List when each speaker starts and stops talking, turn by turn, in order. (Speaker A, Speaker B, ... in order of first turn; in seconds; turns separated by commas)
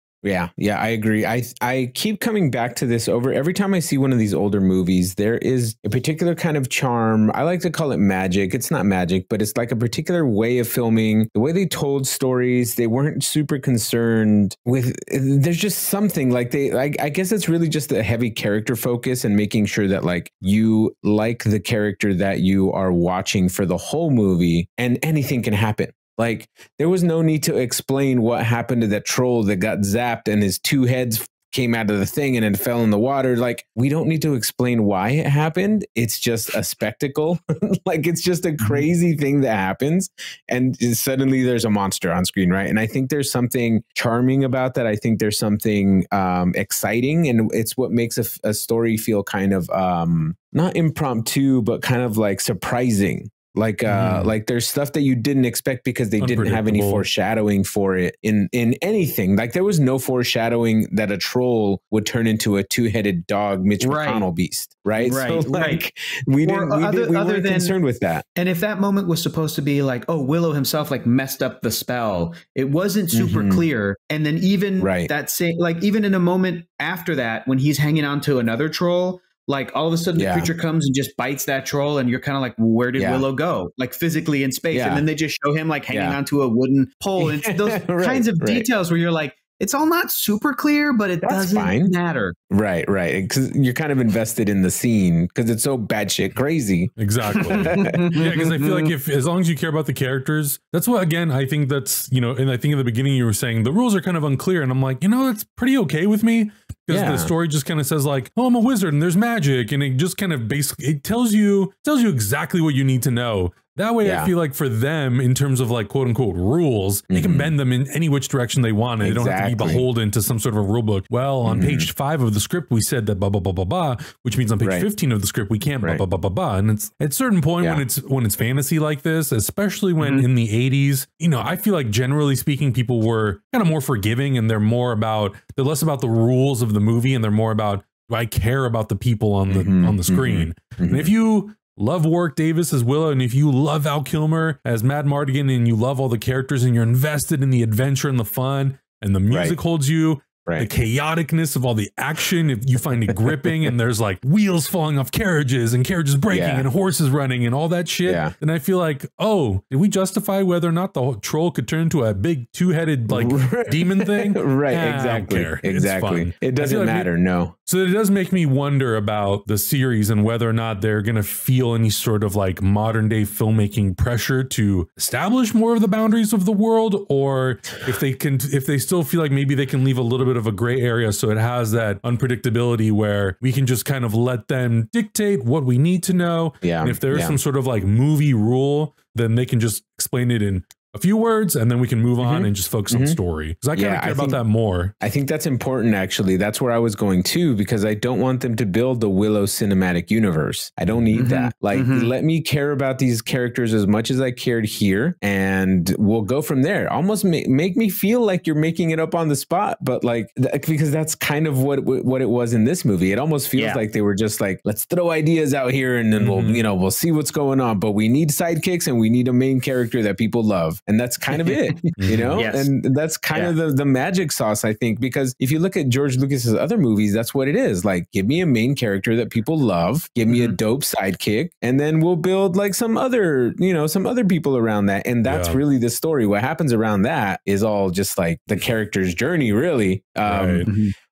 Speaker A: 0.2-68.2, Speaker B: 53.9-54.3, Speaker B: 56.2-57.1, Speaker C: 63.8-64.3, Speaker C: 65.0-65.8, Speaker C: 66.4-67.8, Speaker C: 68.3-92.3, Speaker A: 73.1-73.7, Speaker A: 74.8-75.1, Speaker A: 80.2-80.5, Speaker A: 83.0-83.2, Speaker A: 84.7-85.0, Speaker A: 85.9-86.2, Speaker A: 87.2-88.7, Speaker A: 91.2-91.9, Speaker A: 92.5-96.9, Speaker B: 97.0-167.1, Speaker A: 97.5-98.1, Speaker C: 97.5-98.9, Speaker A: 106.9-107.3, Speaker A: 114.0-114.3, Speaker A: 117.1-117.5, Speaker A: 119.0-119.8, Speaker A: 121.4-121.9, Speaker A: 124.6-124.9, Speaker A: 127.6-127.8, Speaker C: 130.0-130.3, Speaker A: 139.5-141.1, Speaker A: 149.3-149.6, Speaker A: 156.3-156.7, Speaker A: 158.1-158.3, Speaker A: 163.1-167.5, Speaker B: 167.7-194.9, Speaker A: 186.6-187.4, Speaker A: 192.2-193.2, Speaker A: 193.7-194.4, Speaker A: 195.0-240.7, Speaker C: 201.1-202.1, Speaker C: 213.6-213.8, Speaker B: 216.2-216.7, Speaker C: 221.4-222.7, Speaker B: 222.0-222.4, Speaker C: 230.3-230.6, Speaker B: 235.2-235.6, Speaker B: 240.2-240.7, Speaker C: 240.7-240.9